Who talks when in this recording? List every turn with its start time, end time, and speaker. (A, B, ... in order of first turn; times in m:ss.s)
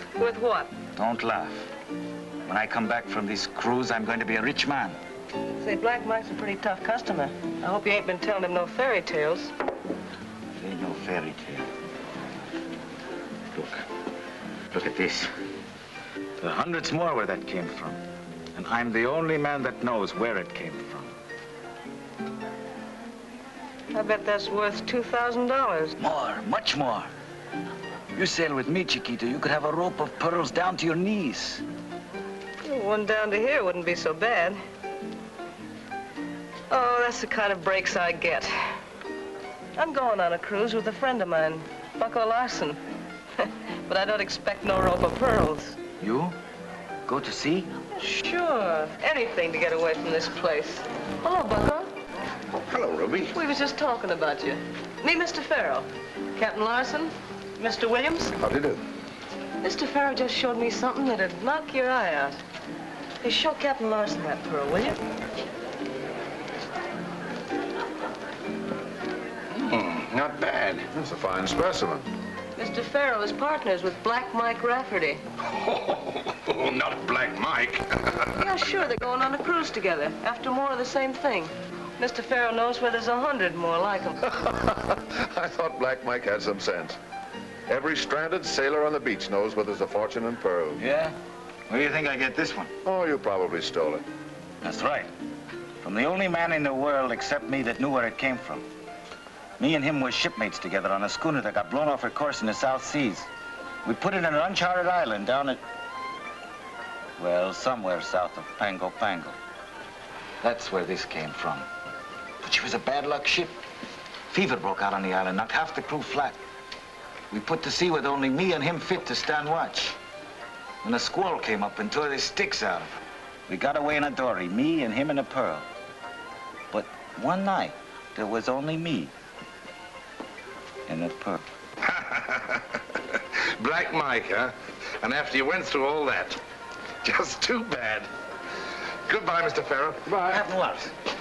0:00.2-0:00.7 A
0:00.9-0:01.7 B
0:02.4-0:05.0 B
0:05.6-0:09.5 A
0:10.5-0:11.7 B
0:13.5-0:13.8 B
0:14.7-0:15.3 B
0:16.4-0:18.0 B
0:18.5-0:21.1 B
0:23.9-0:26.0 A
0:26.0-0:27.1 B
0:28.1-0:31.6 B
0:32.6-0:34.6 A
0:36.7-0:38.5 A
0:39.8-0:42.8 A
0:43.4-0:45.8 A
0:46.0-0:46.4 B
0:47.1-0:47.7 B
0:48.0-0:51.9 A
0:52.6-0:53.4 C
0:53.3-0:58.3 A
0:58.4-0:58.8 C
0:59.6-1:02.4 A
1:03.2-1:05.0 A
1:09.5-1:10.9 C
1:10.9-1:12.0 D
1:12.6-1:15.2 A
1:15.4-1:18.4 C
1:18.4-1:24.1 A
1:24.3-1:27.0 D
1:27.7-1:30.8 D
1:30.8-1:31.2 B
1:31.7-1:32.7 B
1:32.8-1:34.0 D
1:34.6-1:35.1 B
1:35.8-1:38.6 B
1:39.6-1:43.3 B
1:43.8-1:45.6 B
1:47.2-1:49.4 B
1:50.4-1:51.7 B
1:52.4-1:53.6 B
1:54.3-1:56.4 B
1:57.3-2:00.0 B
2:00.8-2:03.0 B
2:03.5-2:05.7 B
2:06.7-2:09.1 B
2:10.9-2:11.4 B
2:11.8-2:16.4 C
2:17.0-2:18.1 C
2:19.1-2:20.1 C
2:20.0-2:20.9 B